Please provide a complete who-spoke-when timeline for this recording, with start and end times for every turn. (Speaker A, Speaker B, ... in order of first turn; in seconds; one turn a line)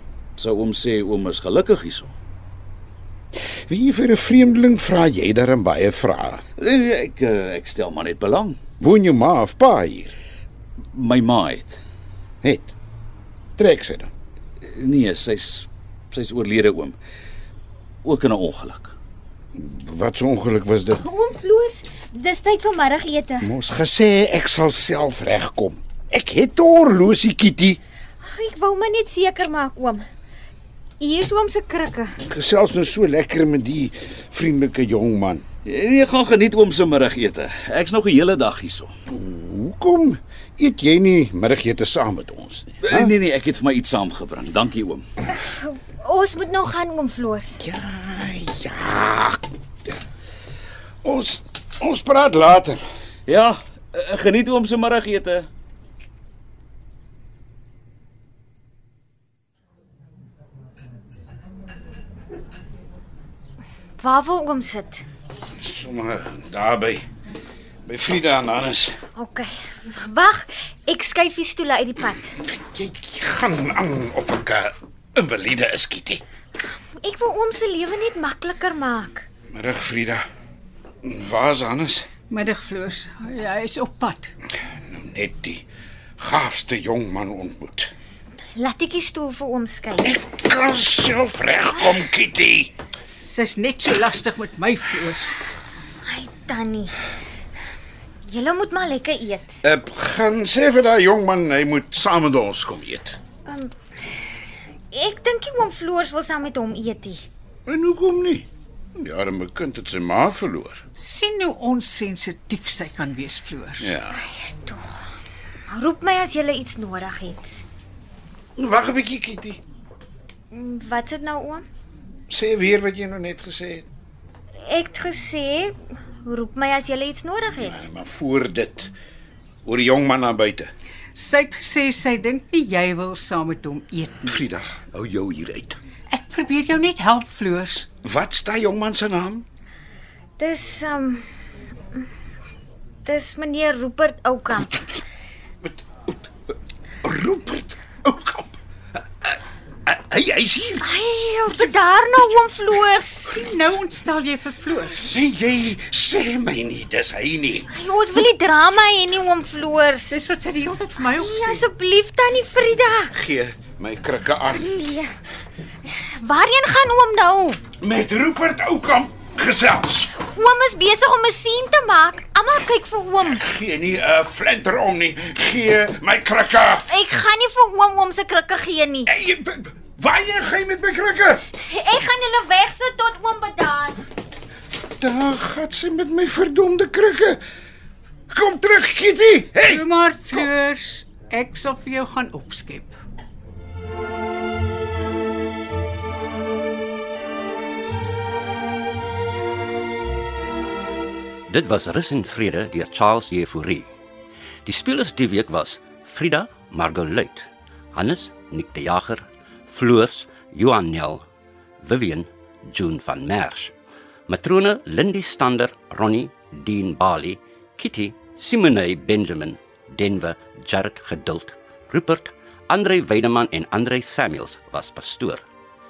Speaker A: 0.4-2.1
Speaker B: 3.4-6.4
Speaker A: 6.6-8.6
Speaker B: 8.8-10.1
Speaker A: 10.9-11.8
Speaker B: 12.4-12.7
Speaker B: 13.6-14.1
Speaker A: 14.6-17.0
Speaker A: 18.0-18.9
Speaker B: 19.5-21.0
Speaker C: 21.0-23.5
Speaker B: 23.4-27.8
Speaker C: 28.2-30.1
Speaker C: 31.0-32.2
Speaker B: 32.2-35.5
Speaker A: 35.6-38.9
Speaker B: 39.1-43.1
Speaker A: 42.9-45.0
Speaker C: 45.3-47.6
Speaker B: 47.6-49.4
Speaker B: 51.0-52.8
Speaker A: 53.3-55.5
Speaker C: 64.0-65.0
Speaker B: 65.6-67.0
Speaker B: 67.9-69.0
Speaker C: 69.2-72.3
Speaker B: 72.4-76.2
Speaker C: 77.0-79.3
Speaker B: 79.5-80.2
Speaker B: 81.0-82.1
Speaker D: 82.3-84.3
Speaker B: 84.9-85.6
Speaker B: 86.2-87.9
Speaker C: 88.5-90.1
Speaker B: 90.0-92.7
Speaker D: 93.2-95.3
Speaker C: 96.0-97.0
Speaker C: 98.3-99.6
Speaker B: 99.6-103.2
Speaker C: 103.5-103.7
Speaker C: 104.9-107.3
Speaker B: 107.7-110.8
Speaker D: 111.0-113.9
Speaker B: 113.8-114.2
Speaker C: 114.1-114.9
Speaker C: 115.7-117.6
Speaker B: 118.6-119.6
Speaker C: 120.5-121.6
Speaker B: 122.3-123.9
Speaker C: 124.6-127.8
Speaker B: 127.6-128.9
Speaker B: 129.7-130.7
Speaker D: 131.2-134.4
Speaker B: 134.3-135.8
Speaker D: 136.1-137.9
Speaker B: 138.0-139.4
Speaker C: 140.4-141.2
Speaker C: 143.0-144.8
Speaker B: 145.7-146.2
Speaker B: 147.0-148.6
Speaker B: 149.9-150.8
Speaker C: 150.8-153.4
Speaker D: 153.3-155.1
Speaker B: 155.1-157.7
Speaker C: 157.7-160.2
Speaker D: 160.1-161.7
Speaker C: 161.2-163.1
Speaker B: 163.1-164.8
Speaker C: 164.6-165.2
Speaker C: 165.9-167.6
Speaker B: 167.8-170.2
Speaker C: 170.2-173.4
Speaker B: 173.2-176.9
Speaker C: 176.9-179.1
Speaker B: 179.1-181.4
Speaker C: 181.6-184.0
Speaker B: 185.0-187.4
Speaker B: 188.3-189.8
Speaker D: 189.6-193.0
Speaker E: 201.5-203.9
Speaker E: 204.7-211.2
Speaker E: 211.8-213.7
Speaker E: 214.3-225.4